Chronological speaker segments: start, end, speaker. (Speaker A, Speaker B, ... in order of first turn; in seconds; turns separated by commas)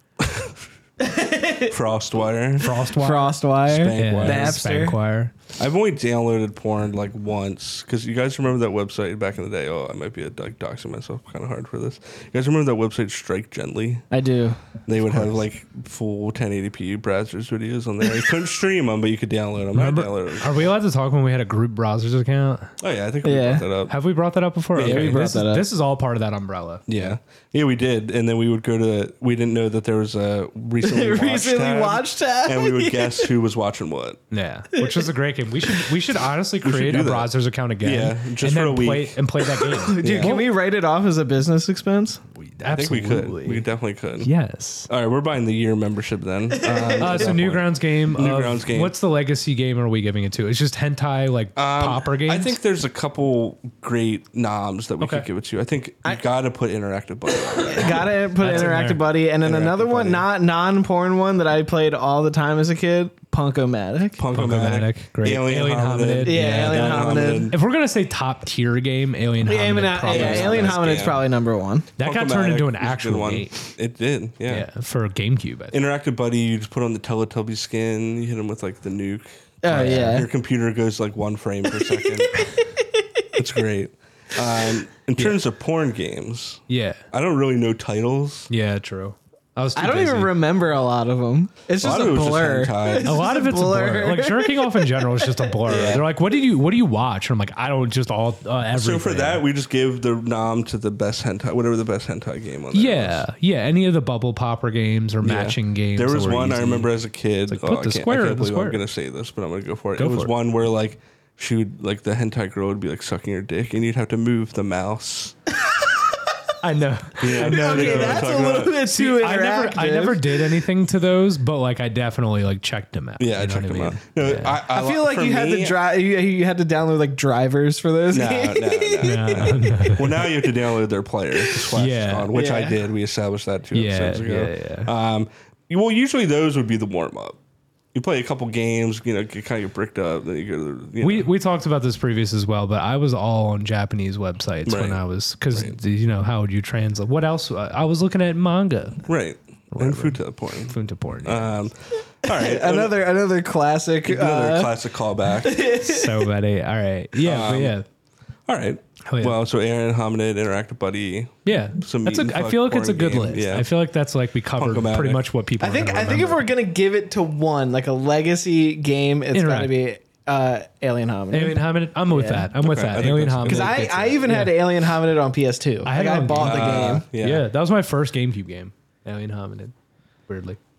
Speaker A: 0.2-0.5, Speaker B: 1.0-1.7, Speaker A: 1.7-2.8, Speaker C: 2.6-5.3, Speaker B: 2.9-5.0, Speaker A: 3.7-4.6, Speaker A: 5.6-14.0, Speaker B: 14.1-14.7, Speaker A: 14.8-20.7, Speaker C: 19.7-22.7, Speaker A: 22.8-23.9, Speaker B: 23.2-23.7, Speaker C: 23.9-27.1, Speaker A: 24.7-25.3, Speaker B: 24.8-25.7, Speaker A: 26.9-34.2, Speaker B: 30.8-33.3, Speaker C: 34.3-40.5, Speaker B: 34.7-35.1, Speaker A: 36.6-37.3, Speaker A: 37.8-39.2, Speaker B: 39.6-42.2, Speaker A: 40.0-40.4, Speaker C: 42.4-43.6, Speaker A: 42.6-44.3, Speaker C: 44.2-44.9, Speaker A: 44.9-48.9, Speaker B: 46.5-47.4, Speaker C: 47.0-52.5, Speaker A: 51.5-58.7, Speaker C: 55.0-55.2, Speaker B: 57.5-64.2, Speaker C: 58.4-59.0, Speaker A: 59.4-60.2, Speaker A: 64.2-67.6, Speaker C: 64.3-71.1, Speaker B: 66.2-67.5, Speaker B: 69.4-71.9, Speaker A: 70.1-71.2, Speaker C: 72.0-73.7, Speaker A: 72.0-74.7, Speaker C: 74.5-75.8, Speaker A: 75.7-82.5, Speaker B: 79.6-80.3, Speaker C: 79.7-80.2, Speaker B: 81.8-83.2, Speaker A: 83.3-88.5, Speaker C: 86.7-87.0, Speaker C: 88.5-90.3, Speaker B: 89.8-96.0, Speaker A: 91.8-93.2, Speaker C: 93.0-99.4, Speaker A: 95.7-96.0, Speaker A: 98.7-103.2, Speaker C: 102.7-106.9, Speaker A: 105.2-115.3, Speaker C: 107.5-108.8, Speaker C: 110.0-110.3, Speaker C: 116.6-124.6, Speaker A: 117.2-118.8, Speaker B: 117.4-120.6, Speaker A: 123.2-125.8, Speaker B: 124.7-129.7, Speaker A: 128.1-137.4, Speaker C: 129.0-130.3, Speaker C: 131.6-132.3, Speaker B: 132.3-132.8, Speaker C: 133.7-134.9, Speaker A: 137.9-141.3, Speaker C: 141.0-149.1, Speaker A: 144.7-145.8, Speaker A: 149.1-152.9, Speaker C: 149.7-151.6, Speaker B: 152.3-154.7, Speaker A: 154.0-155.6, Speaker B: 155.4-156.3, Speaker C: 155.8-157.8, Speaker A: 157.2-157.8, Speaker A: 158.5-163.7, Speaker C: 159.1-159.3, Speaker C: 161.4-166.4, Speaker A: 164.6-165.2, Speaker B: 165.6-172.5, Speaker C: 169.3-169.7, Speaker C: 171.3-174.6, Speaker A: 172.6-173.9, Speaker B: 173.4-177.1, Speaker C: 175.8-179.7, Speaker A: 176.3-177.4, Speaker C: 180.3-180.6